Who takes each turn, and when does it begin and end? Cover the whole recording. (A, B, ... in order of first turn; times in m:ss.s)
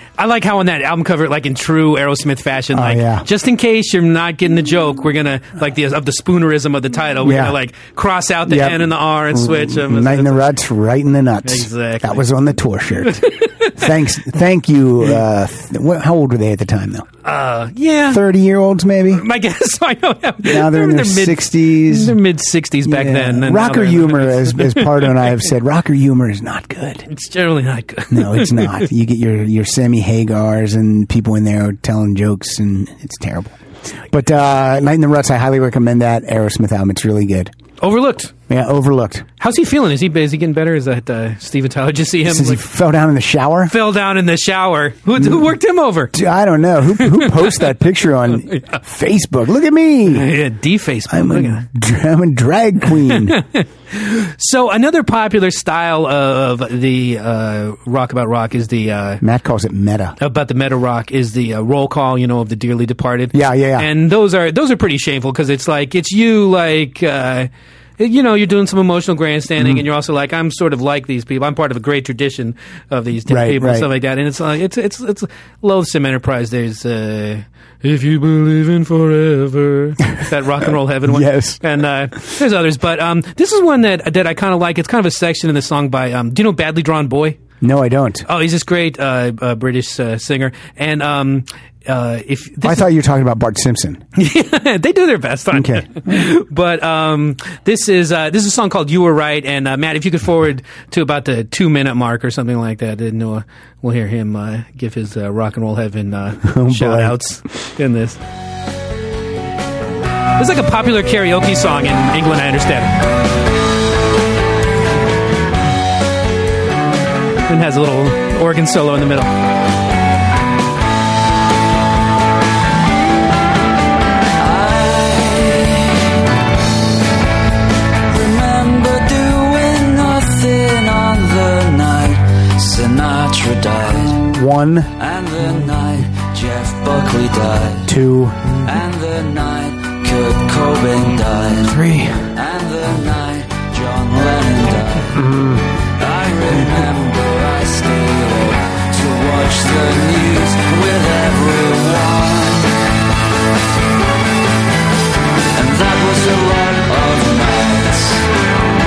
0:00.2-0:10.6 A
0:02.7-0:03.3 B
0:07.2-0:07.6 B
0:08.5-0:17.1 B
0:11.4-0:12.2 A
0:13.3-0:13.8 A
0:17.2-0:18.2 A
0:18.1-0:19.2 B
0:19.1-0:25.3 A
0:20.4-0:22.2 B
0:22.8-0:27.1 B
0:27.1-0:28.9 A
0:28.1-0:37.5 B
0:37.8-0:38.3 A
0:38.5-0:39.3 B
0:39.4-0:42.6 A
0:42.2-0:43.7 B
0:43.7-0:46.2 A
0:45.2-0:45.5 B
0:46.1-0:50.3 B
0:47.0-0:47.5 A
0:48.5-0:48.8 A
0:50.1-0:51.7 A
0:51.1-0:53.4 B
0:53.1-0:59.2 A
0:59.2-1:00.2 B
1:00.2-1:27.4 A
1:03.3-1:03.9 B
1:13.3-1:13.9 B
1:21.1-1:21.6 B
1:27.6-1:28.2 B
1:28.3-1:32.9 A
1:32.6-1:34.0 B
1:34.2-1:48.2 A
1:35.5-1:36.3 B
1:46.4-1:47.2 B
1:50.4-1:52.9 A
1:57.5-1:59.3 A
2:04.4-2:06.1 C
2:08.1-2:14.3 C
2:14.3-2:14.9 B
2:15.0-2:17.8 C
2:17.8-2:18.4 B
2:18.6-2:21.8 C
2:21.6-2:22.3 B
2:22.3-2:25.1 C
2:25.1-2:25.7 B
2:26.0-2:32.7 C
2:35.6-2:38.2 C